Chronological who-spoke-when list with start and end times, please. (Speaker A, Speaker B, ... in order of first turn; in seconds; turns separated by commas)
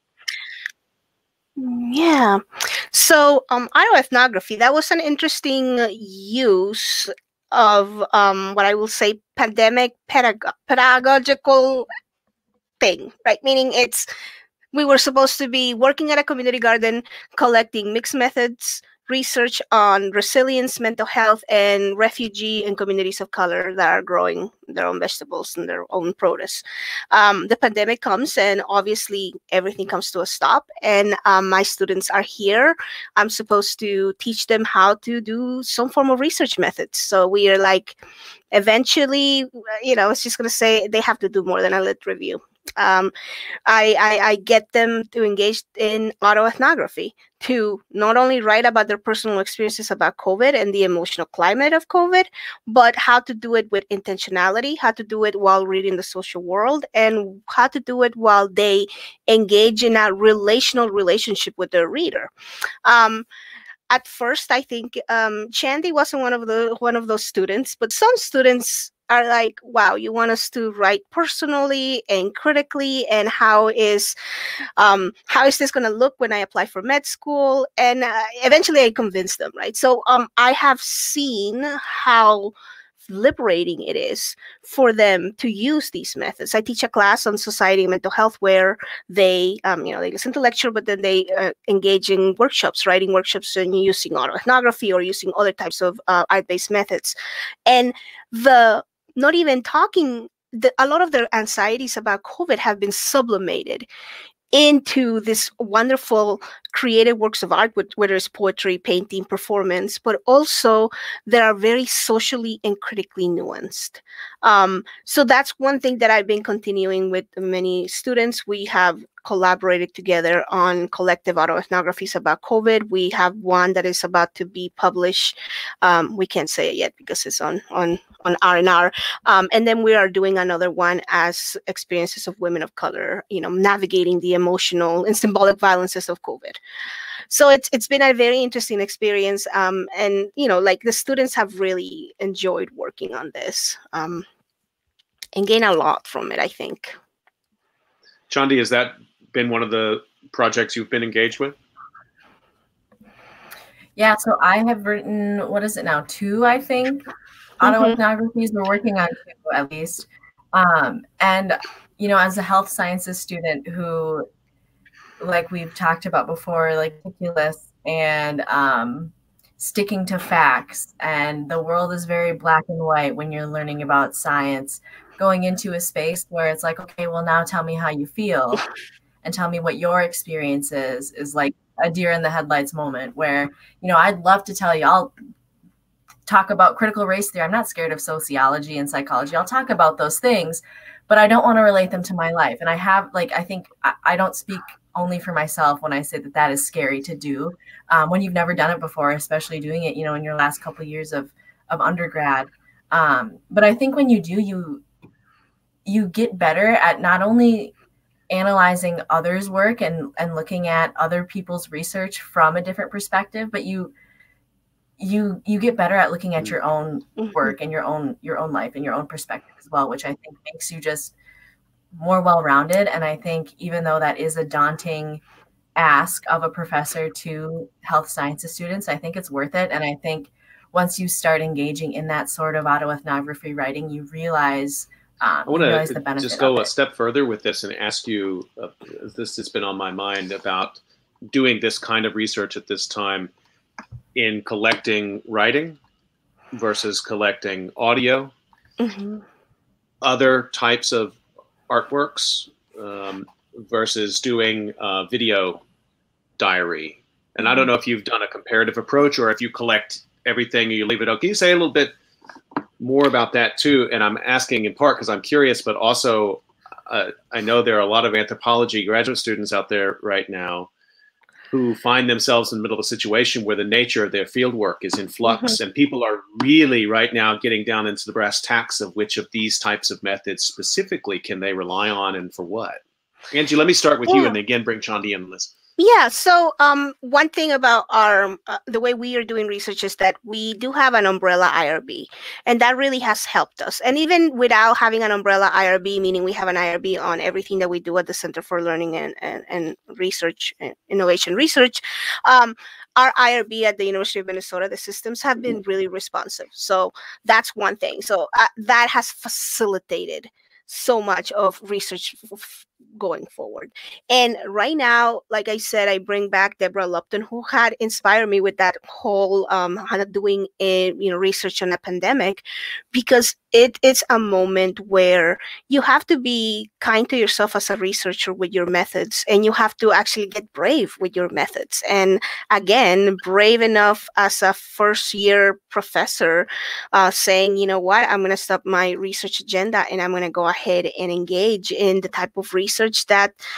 Speaker A: 1.6-11.9, Speaker A: 12.8-14.1, Speaker A: 14.7-38.0, Speaker A: 38.5-43.1, Speaker A: 43.6-62.3, Speaker A: 62.8-63.3, Speaker A: 63.9-74.1, Speaker A: 74.8-82.5, Speaker A: 83.0-97.1, Speaker A: 97.7-103.9, Speaker A: 104.5-136.6, Speaker A: 137.3-144.2, Speaker A: 145.3-146.9, Speaker B: 148.3-151.6, Speaker C: 153.9-157.0, Speaker C: 157.6-164.3, Speaker A: 157.6-158.0, Speaker C: 165.2-178.6, Speaker C: 179.2-185.1, Speaker C: 186.3-204.8, Speaker C: 205.9-207.7, Speaker C: 208.3-213.9, Speaker C: 215.0-221.1, Speaker A: 217.2-217.5, Speaker C: 221.9-225.2, Speaker C: 225.8-236.7, Speaker B: 235.5-243.3, Speaker B: 244.1-245.8, Speaker B: 246.5-248.3, Speaker A: 248.8-249.2, Speaker B: 250.0-251.2, Speaker B: 251.7-255.6, Speaker B: 256.4-261.9, Speaker A: 257.4-257.7, Speaker B: 262.8-270.7, Speaker B: 271.5-282.8, Speaker A: 275.3-275.6, Speaker B: 283.3-285.6, Speaker A: 284.1-284.3, Speaker A: 285.8-343.4